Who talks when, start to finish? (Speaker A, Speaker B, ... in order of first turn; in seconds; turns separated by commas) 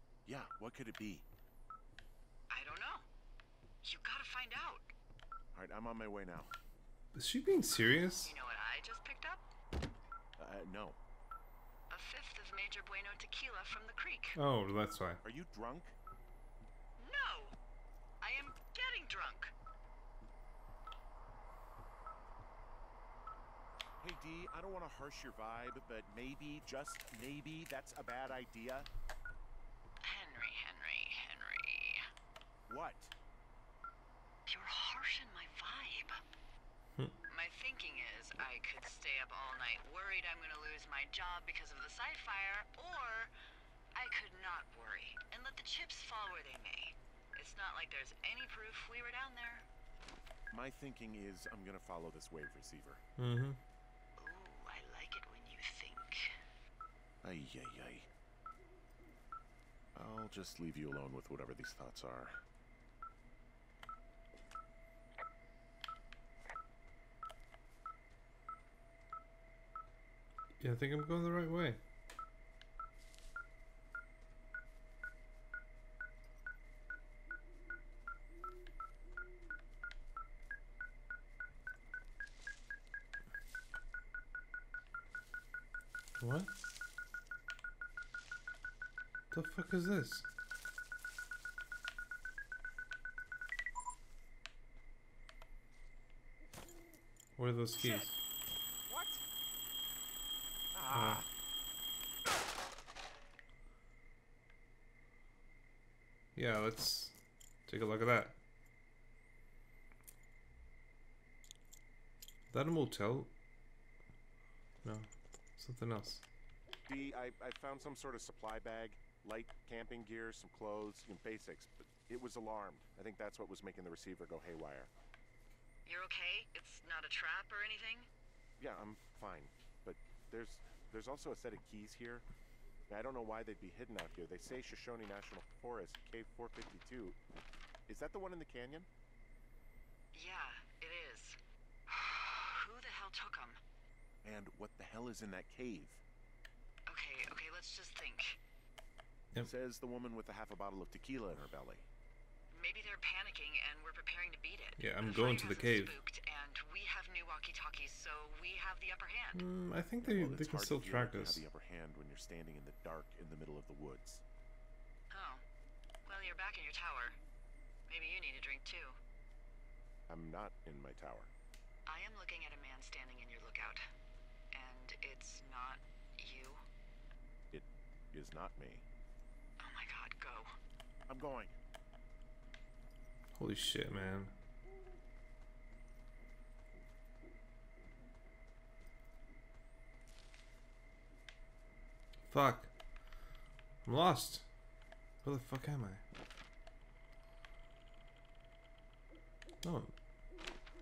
Speaker A: 0.2-1.2, Speaker B: 2.5-3.0, Speaker B: 3.8-4.9, Speaker A: 5.5-6.5, Speaker C: 7.1-8.3, Speaker B: 8.2-9.4, Speaker A: 10.4-11.0, Speaker B: 11.9-14.4, Speaker C: 14.3-15.2, Speaker A: 15.2-15.9, Speaker B: 17.0-17.6, Speaker B: 18.2-19.5, Speaker A: 24.0-28.9, Speaker B: 30.0-32.1, Speaker A: 32.7-33.1, Speaker B: 34.5-36.2, Speaker B: 37.3-43.3, Speaker B: 43.9-49.6, Speaker A: 50.5-53.0, Speaker C: 53.2-53.6, Speaker B: 54.2-56.3, Speaker A: 57.2-58.1, Speaker A: 59.9-62.4, Speaker C: 70.6-71.8, Speaker C: 86.2-86.5, Speaker C: 89.3-90.2, Speaker C: 97.4-98.1, Speaker A: 97.8-98.1, Speaker A: 98.9-99.2, Speaker A: 100.7-101.3, Speaker C: 100.9-101.2, Speaker C: 106.3-107.1, Speaker C: 107.7-108.3, Speaker C: 112.5-113.3, Speaker C: 114.8-116.2, Speaker A: 116.9-124.9, Speaker B: 125.8-128.1, Speaker A: 128.6-132.2, Speaker A: 132.9-137.2, Speaker A: 137.9-138.9, Speaker B: 140.1-143.6, Speaker A: 144.2-146.0, Speaker B: 146.9-148.4, Speaker A: 149.4-151.9, Speaker B: 152.5-159.4, Speaker C: 154.8-155.9, Speaker C: 159.3-161.4, Speaker A: 160.0-164.2, Speaker B: 165.1-165.4, Speaker B: 166.0-167.2, Speaker B: 167.9-169.0, Speaker A: 170.1-171.3, Speaker B: 171.8-173.8, Speaker B: 174.5-176.6, Speaker A: 177.5-178.8, Speaker B: 179.6-180.5, Speaker A: 181.1-181.6, Speaker C: 183.3-184.3, Speaker C: 192.3-192.7, Speaker C: 193.8-194.4, Speaker C: 195.2-196.0, Speaker C: 199.6-199.9